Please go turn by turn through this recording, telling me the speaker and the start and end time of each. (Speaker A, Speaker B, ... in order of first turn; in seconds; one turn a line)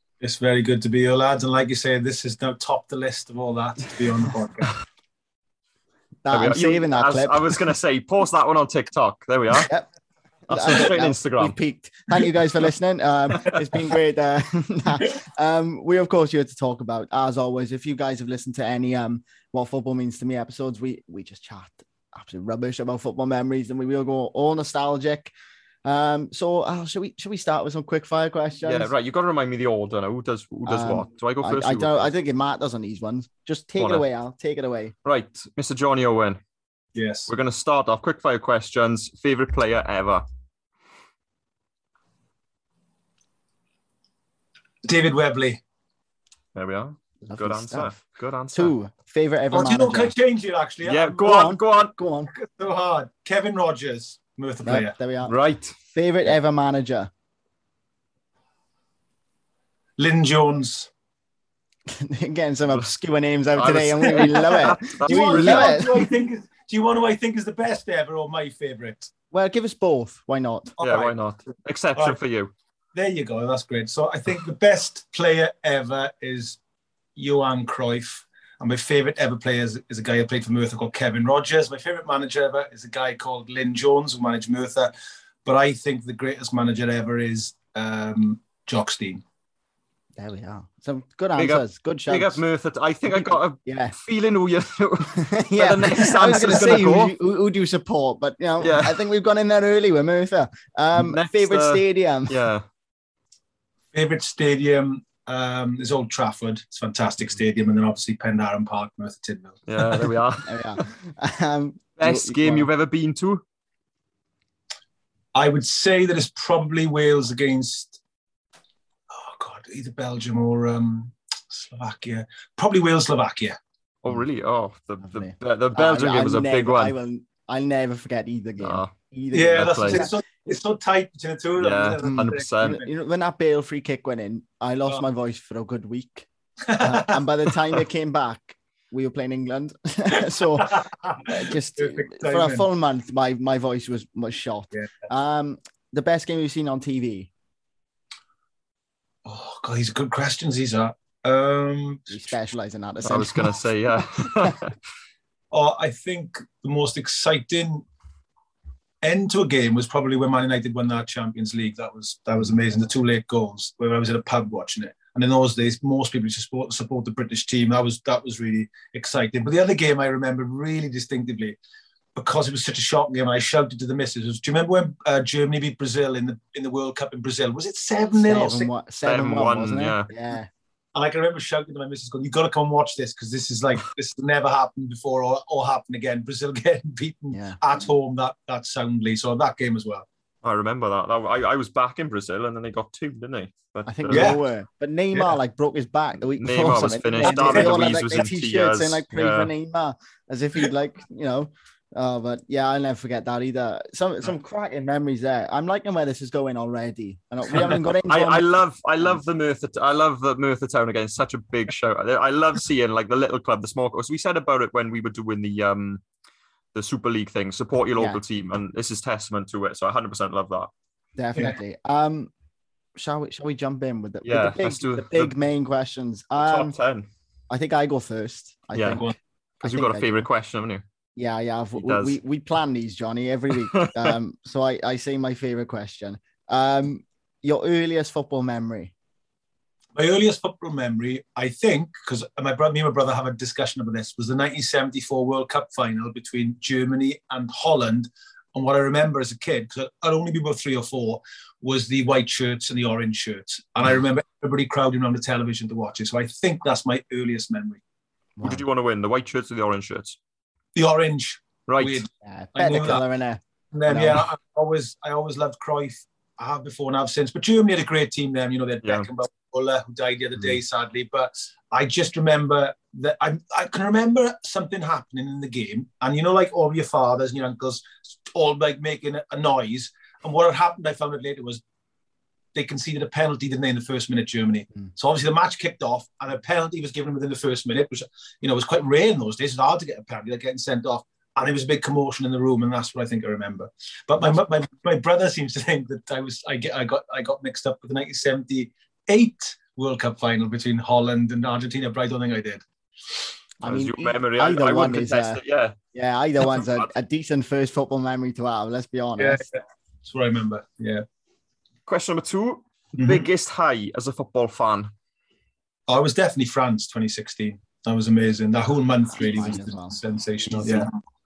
Speaker A: 0.2-4.7
Speaker B: 6.2-7.5
Speaker C: 6.3-9.7
Speaker B: 9.6-9.9
Speaker C: 10.5-11.6
Speaker B: 10.5-25.3
Speaker B: 25.8-28.9
Speaker C: 28.6-32.1
Speaker B: 30.7-34.9
Speaker C: 33.8-34.0
Speaker C: 35.0-36.4
Speaker A: 37.0-37.3
Speaker C: 37.3-40.2
Speaker A: 44.8-45.6
Speaker C: 46.5-48.7
Speaker B: 47.2-48.0
Speaker B: 48.5-50.1
Speaker A: 49.5-51.3
Speaker C: 50.8-51.9
Speaker B: 51.2-52.3
Speaker A: 52.3-55.0
Speaker B: 54.6-55.3
Speaker C: 55.2-55.8
Speaker B: 55.9-57.1
Speaker A: 60.0-60.9
Speaker B: 61.9-66.0
Speaker C: 63.5-66.0
Speaker A: 65.0-69.1
Speaker B: 69.3-70.7
Speaker A: 70.8-71.2
Speaker C: 70.8-72.5
Speaker A: 72.9-76.6
Speaker A: 77.2-84.9
Speaker A: 85.4-89.2
Speaker B: 90.2-92.4
Speaker C: 91.3-97.1
Speaker B: 93.6-94.0
Speaker B: 95.0-102.4
Speaker C: 98.6-99.0
Speaker C: 100.9-102.6
Speaker A: 103.9-110.0
Speaker C: 109.7-110.8
Speaker B: 110.4-112.7
Speaker C: 112.0-113.4
Speaker A: 115.3-118.0
Speaker A: 119.1-123.6
Speaker C: 124.0-126.9
Speaker B: 125.0-130.1
Speaker C: 128.6-128.9
Speaker A: 129.3-132.9
Speaker C: 129.5-130.1
Speaker C: 131.6-132.8
Speaker B: 132.0-147.3
Speaker A: 136.7-137.2
Speaker A: 140.6-142.6
Speaker A: 149.2-152.3
Speaker B: 152.1-153.6
Speaker C: 153.0-154.7
Speaker B: 154.2-154.6
Speaker A: 155.5-157.8
Speaker A: 159.0-171.6
Speaker A: 172.1-178.7
Speaker B: 178.2-180.5
Speaker C: 179.0-180.1
Speaker A: 180.9-190.1
Speaker B: 187.3-187.6
Speaker C: 190.4-194.4
Speaker B: 193.8-208.4
Speaker A: 194.1-194.4
Speaker C: 196.4-199.5
Speaker A: 197.2-197.9
Speaker C: 208.1-216.0
Speaker C: 216.7-220.7
Speaker B: 221.2-222.3
Speaker B: 223.0-226.7
Speaker C: 224.2-225.3
Speaker C: 226.4-227.1
Speaker B: 227.5-229.1
Speaker C: 228.8-229.1
Speaker B: 229.6-230.2
Speaker C: 229.6-230.8
Speaker B: 231.2-238.9
Speaker C: 231.8-232.2
Speaker C: 233.7-234.1
Speaker A: 239.9-257.8
Speaker B: 258.4-258.6
Speaker C: 258.4-260.2
Speaker A: 260.7-263.0
Speaker C: 261.7-262.0
Speaker B: 262.2-264.2
Speaker A: 263.7-281.6
Speaker A: 282.5-302.6
Speaker B: 303.6-305.4
Speaker C: 303.6-305.8
Speaker B: 305.9-309.4
Speaker A: 309.2-311.0
Speaker C: 311.9-314.9
Speaker A: 313.0-313.3
Speaker A: 315.9-320.9
Speaker B: 319.1-320.0